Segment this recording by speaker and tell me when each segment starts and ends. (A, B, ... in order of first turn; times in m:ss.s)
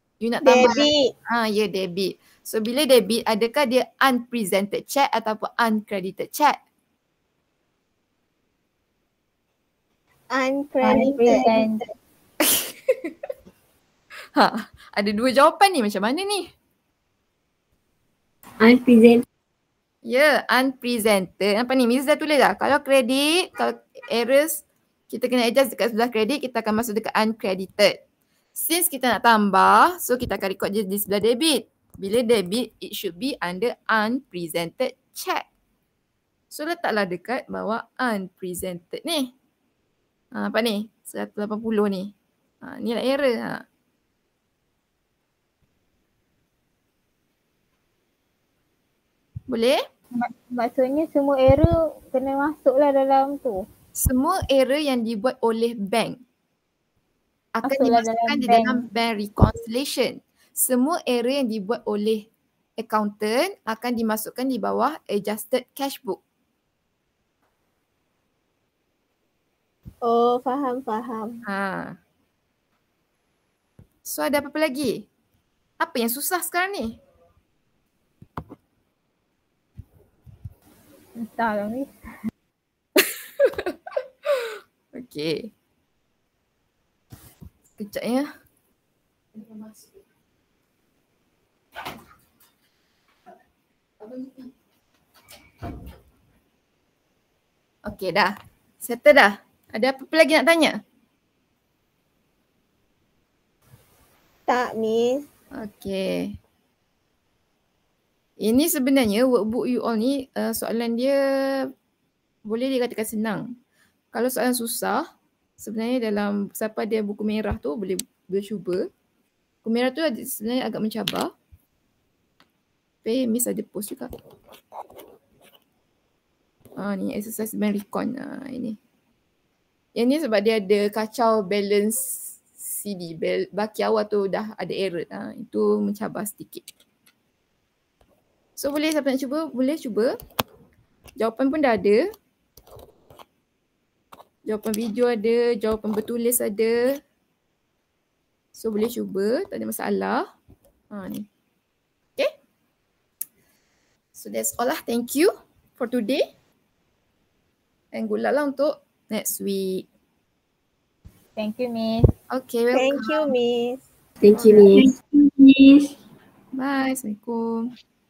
0:00.2-0:06.6 A
0:00.4-0:01.1 B
0:10.3-0:11.7 B
0:10.8-0:11.8 C
0:12.4-0:13.1 A
0:14.3-0:16.5 A
0:18.6-0:19.2 D
0:20.0-0:28.0 A
0:28.5-0:35.5 A
0:36.5-0:39.3 A
0:40.3-0:43.6 A
0:49.5-0:49.8 A
0:50.1-0:53.6 C
0:54.0-0:56.2 A
0:57.5-1:06.2 A
0:57.6-0:58.8 C
1:10.0-1:11.4 B
1:11.4-1:12.0 A
1:14.0-1:15.1 A
1:15.8-1:17.0 A
1:21.2-1:21.9 C
1:23.0-1:23.8 A
1:24.3-1:25.5 A
1:27.8-1:28.3 A
1:29.3-1:30.0 A
1:34.0-1:34.5 A
1:37.8-1:40.8 A
1:44.5-1:45.2 B
1:45.5-1:46.4 A
1:48.4-1:51.7 A
1:52.5-1:53.4 A
1:54.1-1:55.0 A
1:55.6-1:58.8 A
1:59.6-2:01.3 A
2:03.0-2:04.1 A
2:06.8-2:08.8 A
2:10.0-2:16.6 A
2:18.6-2:20.1 A
2:21.2-2:22.0 A
2:24.4-2:27.0 A
2:28.5-2:30.2 A
2:30.9-2:31.2 A
2:34.1-2:36.2 A
2:37.9-2:39.9 A
2:41.4-2:42.1 C
2:42.3-2:43.3 A
2:42.7-2:43.8 B
2:44.2-2:45.8 D
2:44.3-2:44.8 A
2:46.6-2:47.7 A